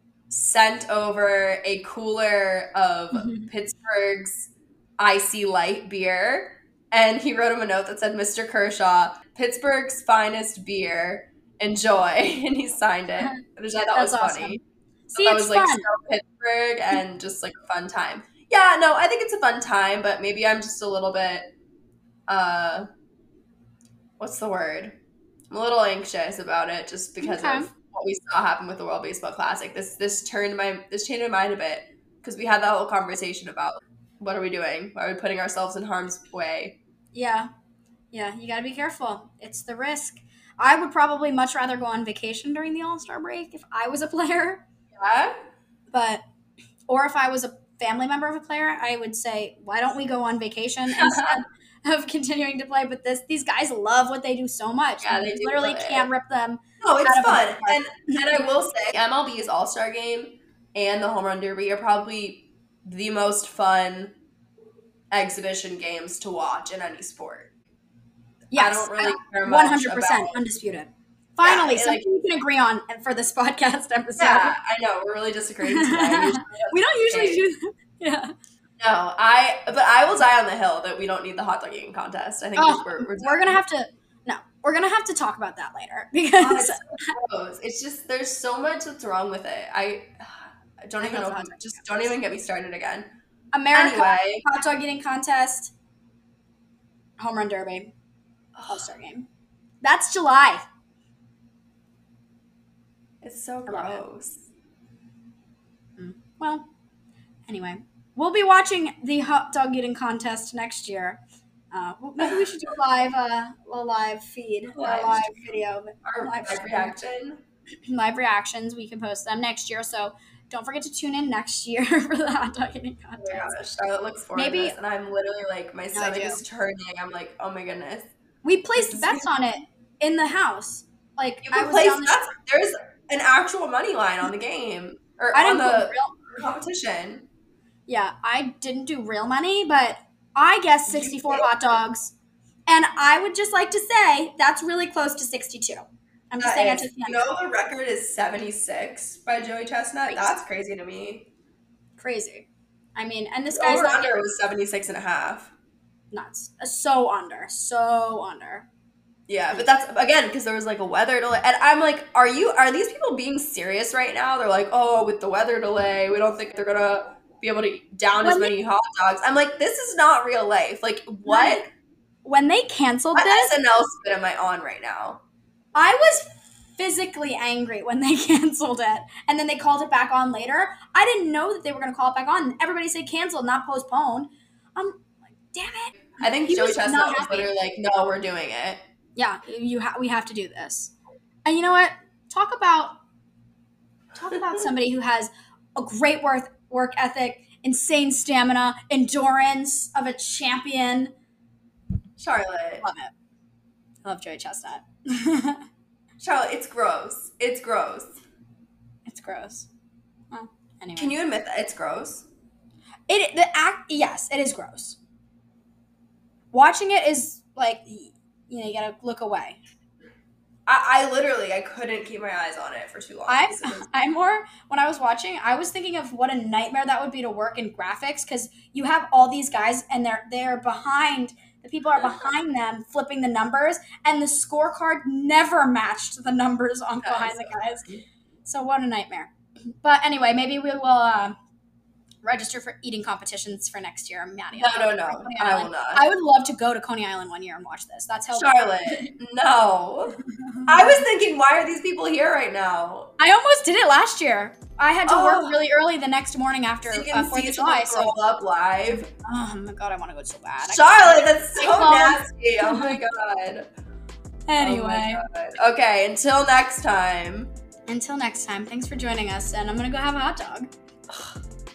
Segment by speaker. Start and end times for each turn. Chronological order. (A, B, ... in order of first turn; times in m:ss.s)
0:00.3-0:14.6 A
0:03.1-0:03.5 B
0:13.2-0:14.6 B
0:15.1-0:15.9 B
0:15.2-0:21.4 A
0:22.3-0:22.9 A
0:24.2-0:24.9 A
0:25.5-0:36.8 A
0:27.2-0:27.7 B
0:37.1-0:37.5 B
0:38.1-0:44.6 B
0:45.0-0:45.3 A
0:45.9-0:46.2 B
0:46.9-0:58.4 B
0:50.9-0:51.4 A
0:55.0-0:56.1 A
0:56.8-1:04.1 A
1:05.1-1:07.5 A
1:08.5-1:14.6 B
1:08.5-1:10.4 A
1:11.4-1:12.0 A
1:14.2-1:17.4 A
1:15.6-1:18.3 B
1:18.8-1:23.6 A
1:22.6-1:27.2 B
1:26.4-1:33.1 A
1:31.0-1:31.8 B
1:33.5-1:35.7 B
1:33.7-1:34.4 A
1:37.2-1:37.9 B
1:38.5-1:38.9 A
1:38.7-1:39.3 B
1:39.8-1:40.6 B
1:43.2-1:44.5 A
1:43.7-1:44.0 B
1:46.0-1:46.7 B
1:47.5-1:51.2 B
1:51.7-1:57.0 B
1:54.7-1:55.4 A
1:56.0-1:57.4 A
1:57.9-2:03.5 B
2:03.2-2:08.1 A
2:04.3-2:04.8 B
2:05.9-2:06.4 B
2:08.4-2:12.3 B
2:08.8-2:09.3 A
2:11.4-2:17.3 A
2:15.3-2:16.3 B
2:17.9-2:22.1 B
2:20.9-2:21.5 A
2:22.7-2:27.3 B
2:26.4-2:31.3 A
2:30.1-2:30.4 B
2:32.0-2:34.1 B
2:33.5-2:35.5 A
2:36.1-2:38.7 B
2:39.3-2:51.7 A
2:48.2-2:48.5 B
2:51.2-2:51.6 B
2:52.2-2:53.5 B
2:53.1-2:55.2 A
2:55.7-3:07.5 B
3:06.2-3:08.8 A
3:09.2-3:10.9 B
3:11.4-3:13.0 B
3:14.1-3:21.1 B
3:22.2-3:22.8 A
3:22.8-3:23.1 B
3:24.0-3:25.6 B
3:26.2-3:28.2 A
3:29.0-3:29.7 B
3:30.3-3:31.1 B
3:31.0-3:32.3 A
3:33.1-3:35.0 B
3:36.5-3:39.6 B
3:40.7-3:43.8 A
3:43.3-3:57.9 B
3:57.0-3:58.0 A
3:58.4-3:59.3 B
3:59.8-4:01.4 B
4:02.2-4:09.1 B
4:04.5-4:06.0 A
4:08.3-4:13.1 A
4:10.4-4:10.8 B
4:13.2-4:18.1 B
4:15.0-4:15.6 A
4:16.9-4:19.1 A
4:19.2-4:23.0 B
4:20.6-4:23.7 A
4:24.5-4:25.2 B
4:24.6-4:27.5 A
4:27.9-4:30.7 B
4:31.1-4:31.4 A